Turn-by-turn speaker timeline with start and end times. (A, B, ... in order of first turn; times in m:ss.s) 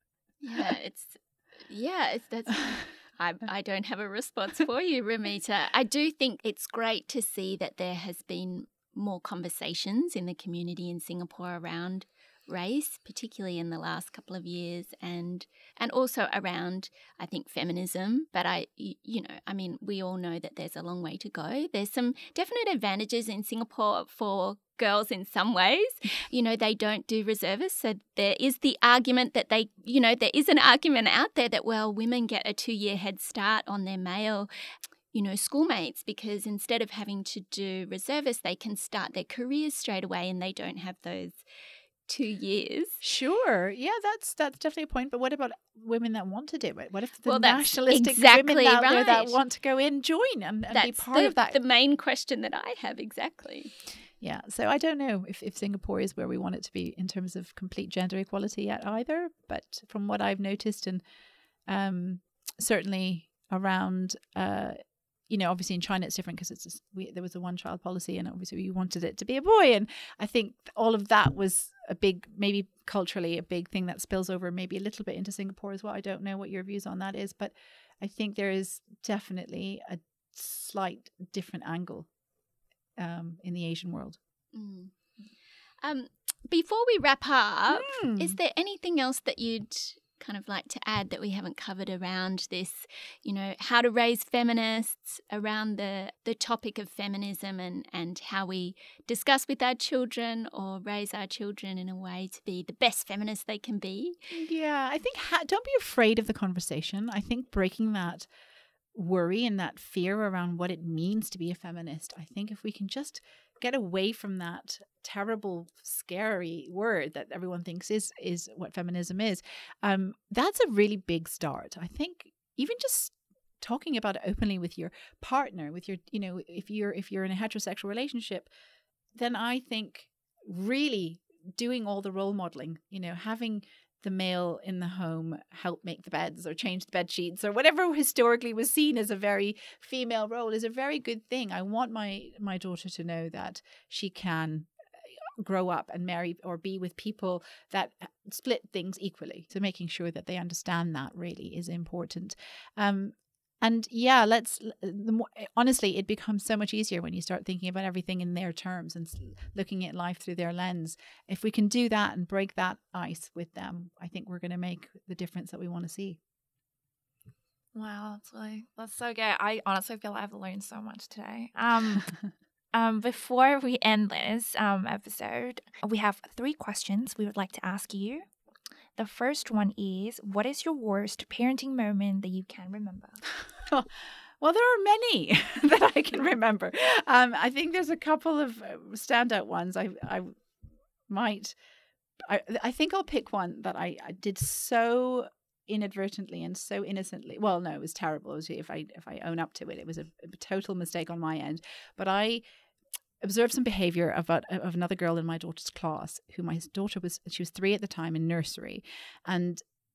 0:00.4-0:34.5 A
0:35.1-0:41.4 A
0:42.1-0:43.0 A
0:43.0-0:51.6 B
0:47.2-0:49.4 A
0:50.7-0:53.7 A
0:54.2-1:01.0 B
1:01.7-1:22.1 B
1:23.0-1:24.2 B
1:24.5-1:24.9 A
1:25.8-1:44.2 A
1:27.7-1:28.4 B
1:44.3-1:48.3 B
1:48.9-2:08.5 B
2:09.1-2:46.2 B
2:47.7-2:52.1 C
2:52.7-2:58.2 C
2:59.0-3:03.2 C
3:03.6-3:10.3 B
3:11.1-3:11.6 B
3:12.2-3:22.4 B
3:23.2-3:29.6 B